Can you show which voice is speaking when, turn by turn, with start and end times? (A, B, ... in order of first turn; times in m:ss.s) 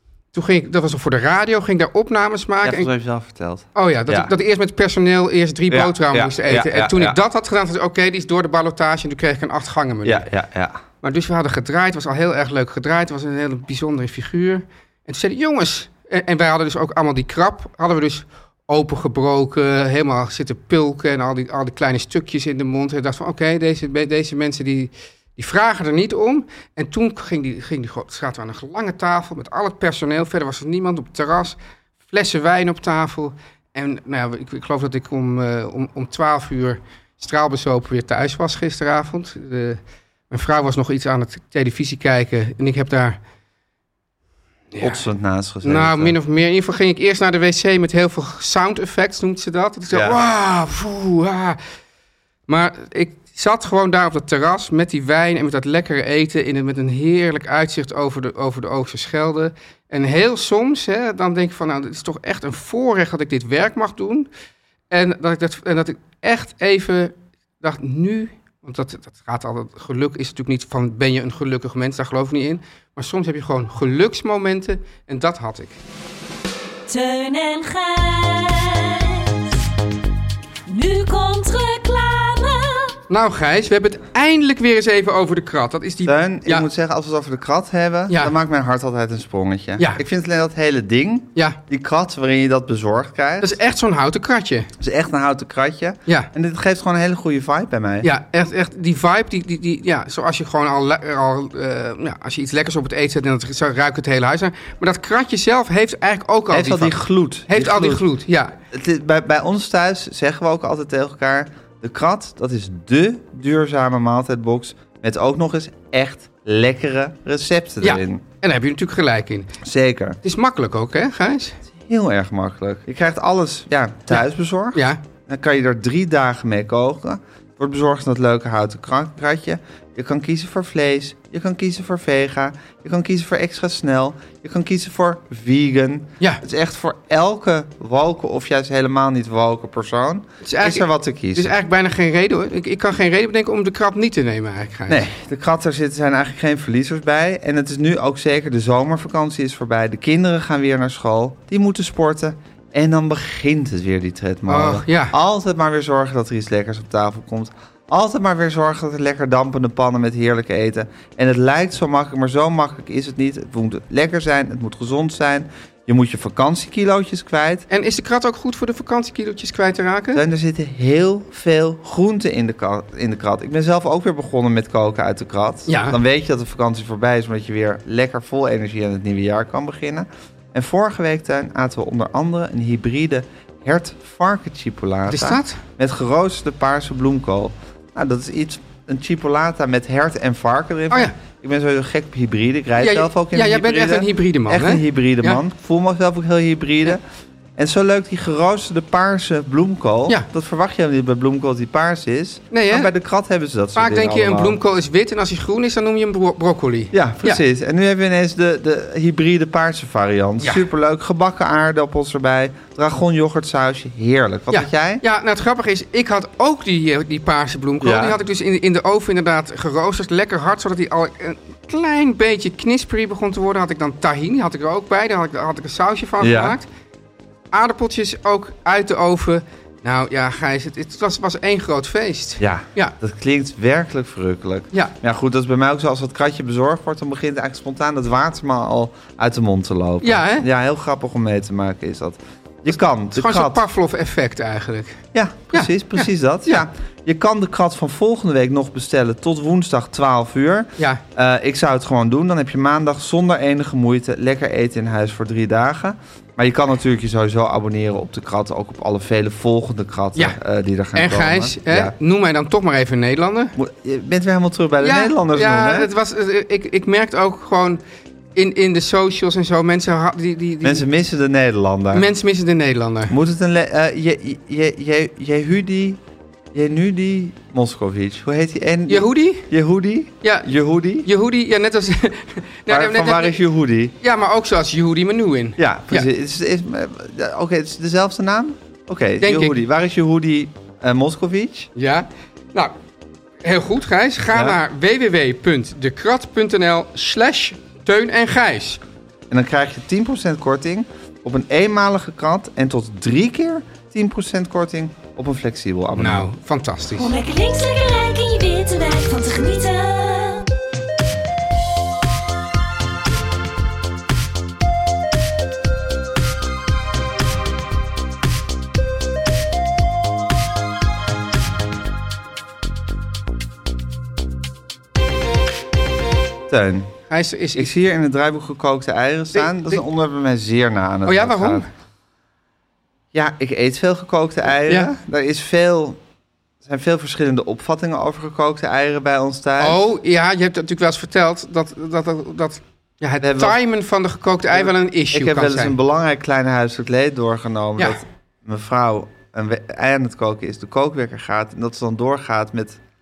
0:00.3-0:02.9 A
0:02.6-0:04.3 B
0:03.7-0:10.2 A
0:05.7-0:07.2 B
0:10.0-0:10.8 B
0:11.0-0:43.2 A
0:44.7-0:45.0 A
0:44.8-0:46.2 B
0:45.6-0:51.6 A
0:49.9-0:50.2 B
0:52.5-1:04.3 A
1:04.9-1:15.8 A
1:16.9-1:19.6 C
1:20.7-1:23.0 C
1:23.1-1:26.7 A
1:26.0-1:33.6 B
1:28.1-1:28.3 A
1:33.4-1:34.7 A
1:34.8-1:38.1 B
1:38.0-1:48.6 A
1:46.5-1:48.0 B
1:48.7-1:58.2 B
1:57.8-1:59.5 A
1:59.6-2:00.2 B
2:00.2-2:01.6 A
2:01.7-2:21.5 B
2:04.1-2:05.0 A
2:20.4-2:25.0 A
2:24.9-2:47.6 B
2:34.5-2:35.1 A
2:47.7-2:50.2 A
2:50.1-3:17.0 B
2:55.7-2:56.0 A
3:05.1-3:05.6 A
3:12.8-3:15.4 A
3:17.6-3:24.6 B
3:22.5-3:22.9 A
3:23.7-3:27.4 A
3:26.9-3:35.0 B
3:30.4-3:30.6 A
3:34.5-3:46.7 A
3:37.8-3:38.2 B
3:46.2-3:46.6 B
3:47.5-3:52.9 A
3:52.4-4:03.6 B
4:00.0-4:00.5 A
4:02.7-4:06.6 A
4:05.1-4:21.9 B
4:20.9-4:23.5 A
4:23.6-4:25.9 B
4:24.8-4:27.8 A
4:28.3-4:30.8 A
4:30.6-4:32.1 B
4:31.9-4:33.1 A
4:33.1-4:36.0 B
4:36.5-4:41.1 B
4:38.9-4:39.5 A
4:40.2-4:40.5 A
4:41.0-4:43.4 A
4:42.7-4:43.9 B
4:44.0-4:46.1 A
4:45.6-4:51.7 B
4:49.2-4:49.6 A
4:51.8-4:52.7 A
4:53.4-4:58.8 A
4:54.3-4:54.6 B
4:59.3-5:06.2 B
5:05.9-5:07.1 A
5:06.9-5:10.5 C
5:26.5-5:26.9 B
5:27.1-5:27.7 A
5:27.5-5:31.6 B
5:29.3-5:29.8 A
5:31.0-5:31.7 A
5:33.1-5:36.0 B
5:36.6-5:39.8 B
5:39.6-5:45.8 A
5:43.2-5:43.6 B
5:44.5-5:52.8 B